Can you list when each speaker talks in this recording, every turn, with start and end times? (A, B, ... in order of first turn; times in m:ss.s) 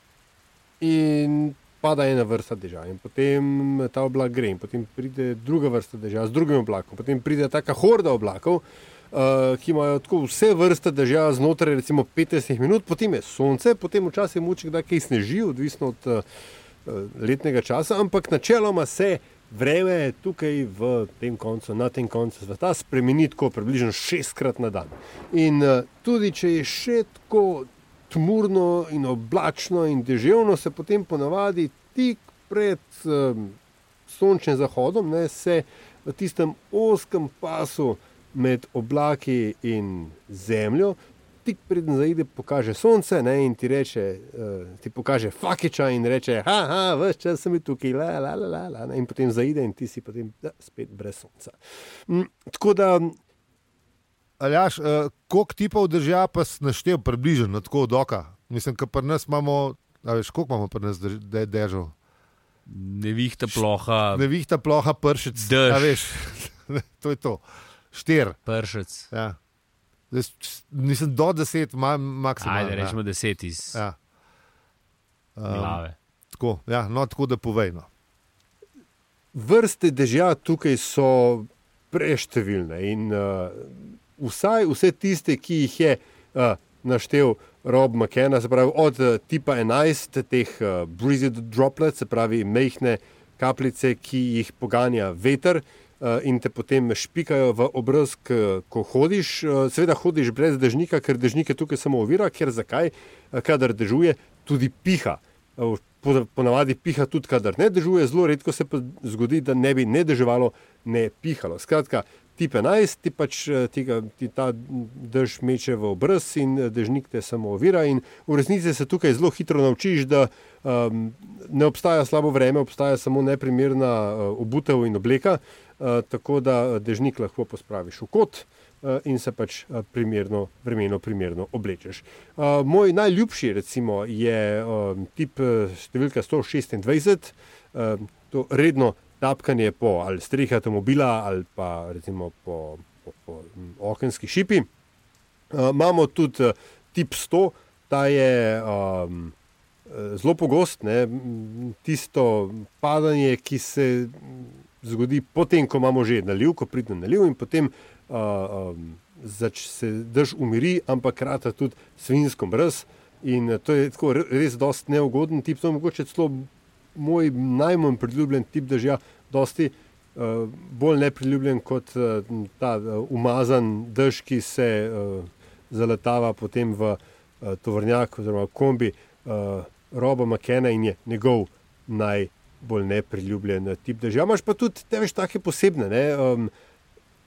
0:00.8-0:16.2 A
0:16.8-0:33.5 A
0:34.1-0:51.6 A
0:52.1-0:53.1 A
0:54.4-1:01.9 B
1:02.7-1:04.3 C
1:03.5-1:08.4 B
1:05.4-1:06.0 C
1:08.4-1:09.1 C
1:09.1-1:09.4 B
1:10.1-1:13.0 B
1:12.4-1:13.8 C
1:15.4-1:15.8 B
1:15.5-1:15.9 C
1:16.3-1:17.9 B
1:19.3-2:24.7 A
2:25.5-2:29.3 A
2:29.9-3:06.5 A